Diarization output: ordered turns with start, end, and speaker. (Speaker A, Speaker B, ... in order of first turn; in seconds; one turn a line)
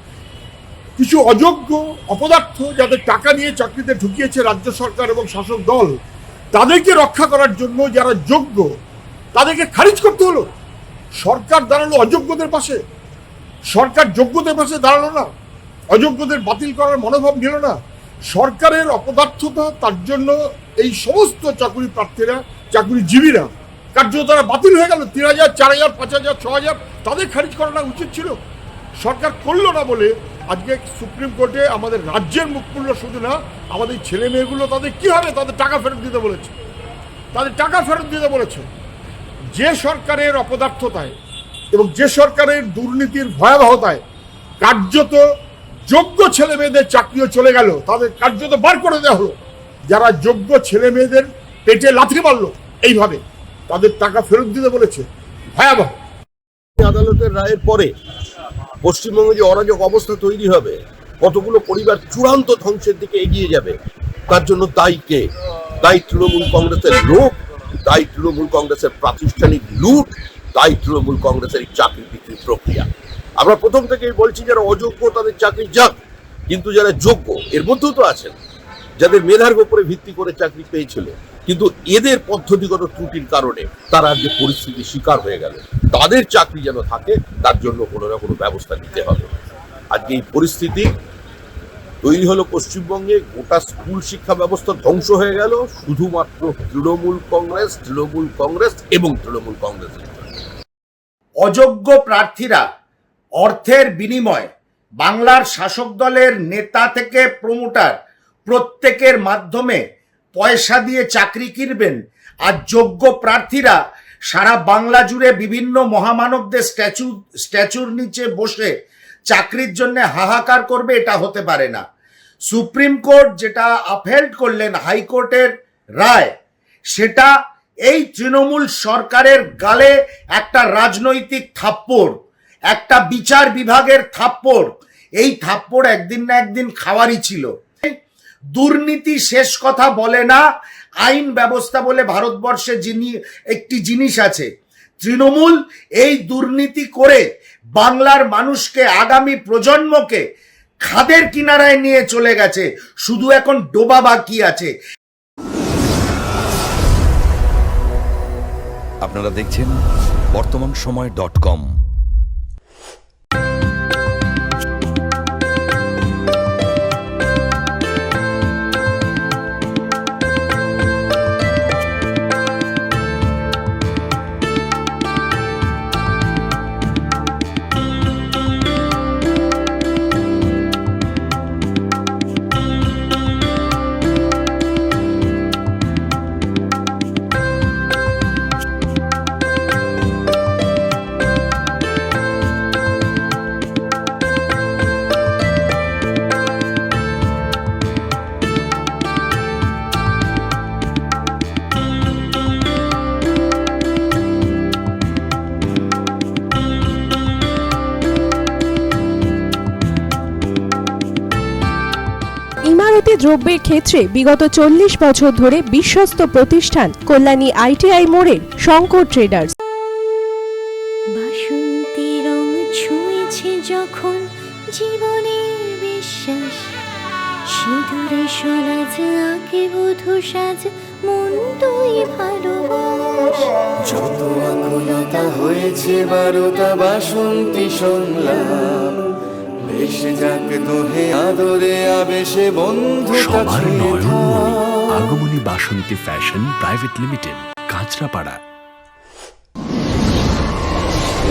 Speaker A: 1.0-5.9
Speaker A: 6.5-8.7
Speaker A: 9.3-10.5
Speaker A: 11.2-12.8
Speaker A: 13.7-15.3
Speaker A: 15.9-17.8
Speaker A: 18.3-28.4
Speaker A: 29.0-36.6
Speaker A: 37.3-38.7
Speaker A: 39.5-41.1
Speaker A: 41.7-44.0
Speaker A: 44.6-45.2
Speaker A: 45.9-49.4
Speaker A: 49.9-55.9
Speaker B: 56.8-57.9
Speaker B: 58.8-63.8
Speaker B: 64.3-65.3
Speaker B: 65.8-72.9
Speaker B: 73.4-75.9
Speaker B: 76.5-78.4
Speaker B: 79.0-89.3
Speaker B: 89.9-90.9
Speaker B: 92.0-100.2
Speaker C: 101.4-102.6
Speaker C: 103.4-104.5
Speaker C: 105.0-107.9
Speaker C: 108.5-109.8
Speaker C: 110.3-113.8
Speaker C: 114.3-118.7
Speaker C: 119.3-121.8
Speaker C: 122.5-126.3
Speaker C: 126.9-127.3
Speaker C: 127.9-132.1
Speaker C: 132.7-134.7
Speaker C: 135.2-137.9
Speaker C: 138.6-140.4
Speaker C: 141.0-144.5
Speaker C: 145.0-147.2
Speaker C: 147.8-150.2
Speaker C: 150.9-154.7
Speaker D: 159.0-159.7
Speaker D: 160.3-161.7
Speaker E: 212.7-219.5
Speaker F: 221.2-226.8
Speaker F: 227.5-233.5
Speaker G: 233.9-239.0
Speaker F: 234.7-235.2
Speaker G: 239.7-244.2
Speaker H: 243.2-248.4